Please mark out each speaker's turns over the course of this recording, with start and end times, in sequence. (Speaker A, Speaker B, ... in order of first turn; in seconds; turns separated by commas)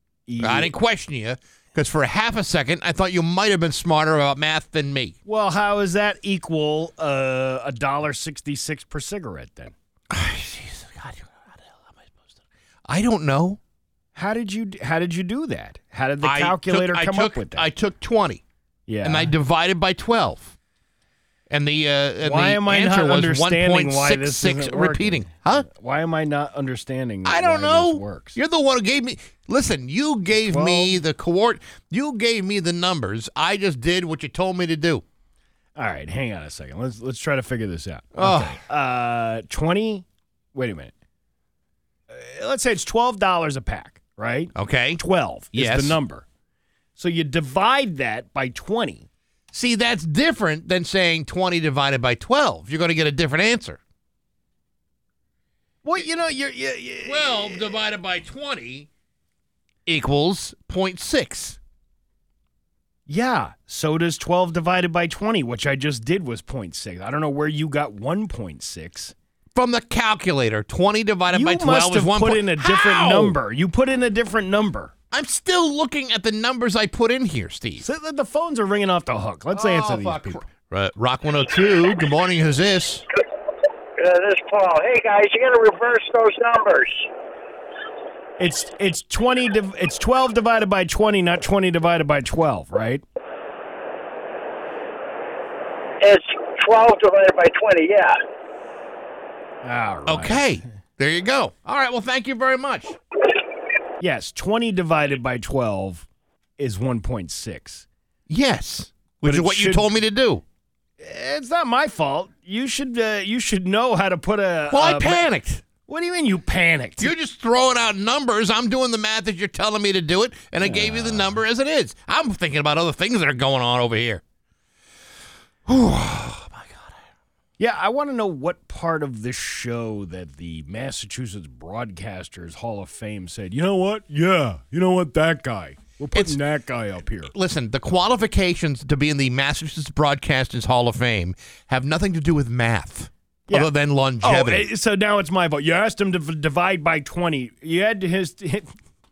Speaker A: 0.3-0.7, Speaker B: 0.4-5.1, Speaker A: 5.2-9.7, Speaker B: 10.1-12.1, Speaker B: 12.9-13.6, Speaker A: 14.1-17.7, Speaker B: 16.2-18.4, Speaker A: 18.9-19.3, Speaker B: 19.0-20.5, Speaker B: 21.5-25.6, Speaker A: 22.2-28.4, Speaker B: 27.2-35.0, Speaker A: 30.4-31.0, Speaker A: 35.8-40.9, Speaker B: 38.2-38.6, Speaker A: 42.1-46.2, Speaker B: 44.5-45.0, Speaker B: 45.5-46.0, Speaker A: 47.0-49.1, Speaker B: 49.5-53.8, Speaker A: 55.8-57.7, Speaker B: 57.0-58.9, Speaker B: 59.9-61.6, Speaker A: 63.1-69.1, Speaker B: 69.5-73.4, Speaker A: 71.3-74.9, Speaker B: 75.1-77.8, Speaker A: 77.8-80.4, Speaker B: 79.5-83.0, Speaker C: 84.0-87.1, Speaker A: 88.4-93.0, Speaker C: 96.0-98.2, Speaker A: 99.6-100.6, Speaker B: 100.1-103.0, Speaker A: 104.0-106.0, Speaker A: 106.6-107.8, Speaker B: 108.3-110.4, Speaker A: 109.2-109.8, Speaker A: 111.0-115.2, Speaker B: 114.7-115.6, Speaker A: 115.9-117.1, Speaker B: 117.0-124.2, Speaker A: 120.6-121.4, Speaker B: 125.7-126.9, Speaker A: 127.6-137.3, Speaker B: 137.3-144.7, Speaker A: 144.2-148.7